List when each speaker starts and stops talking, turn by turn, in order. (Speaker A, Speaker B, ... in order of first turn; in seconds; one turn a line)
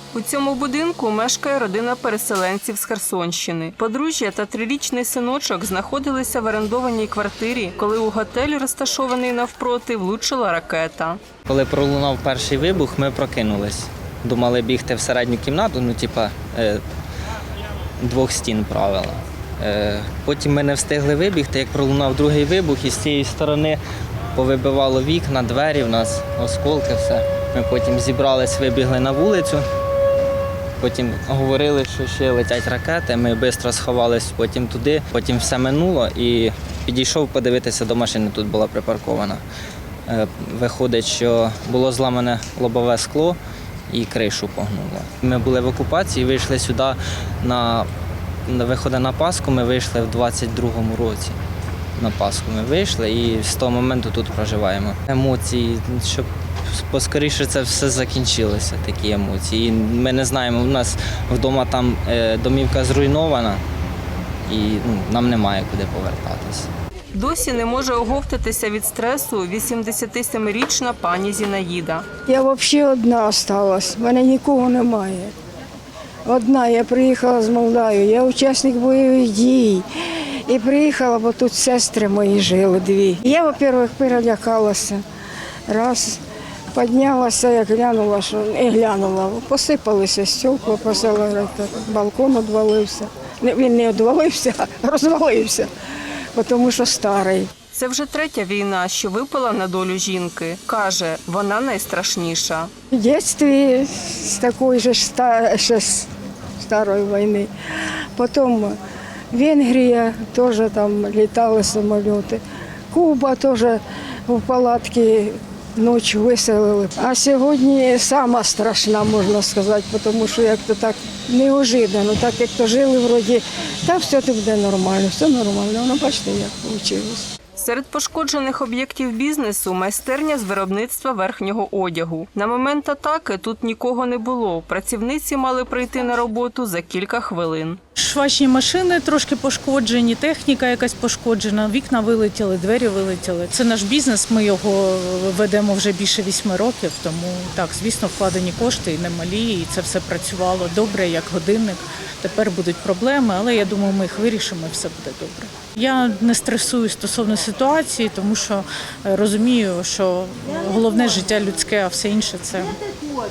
Speaker A: 0.1-11.2
Speaker B: 11.5-16.8
Speaker B: 18.0-23.8
Speaker B: 24.4-29.7
Speaker B: 30.8-39.4
Speaker B: 40.1-43.4
Speaker B: 43.9-47.9
Speaker B: 48.5-51.4
Speaker B: 52.0-63.6
Speaker B: 64.5-66.7
Speaker A: 67.1-72.1
Speaker C: 72.3-75.3
Speaker C: 76.2-79.9
Speaker C: 80.5-85.0
Speaker C: 85.7-86.2
Speaker C: 86.7-95.7
Speaker C: 96.3-97.5
Speaker A: 97.7-102.7
Speaker C: 102.9-106.1
Speaker C: 106.6-107.5
Speaker C: 108.2-108.8
Speaker C: 109.3-112.4
Speaker C: 112.9-127.3
Speaker A: 127.6-137.8
Speaker D: 138.0-162.8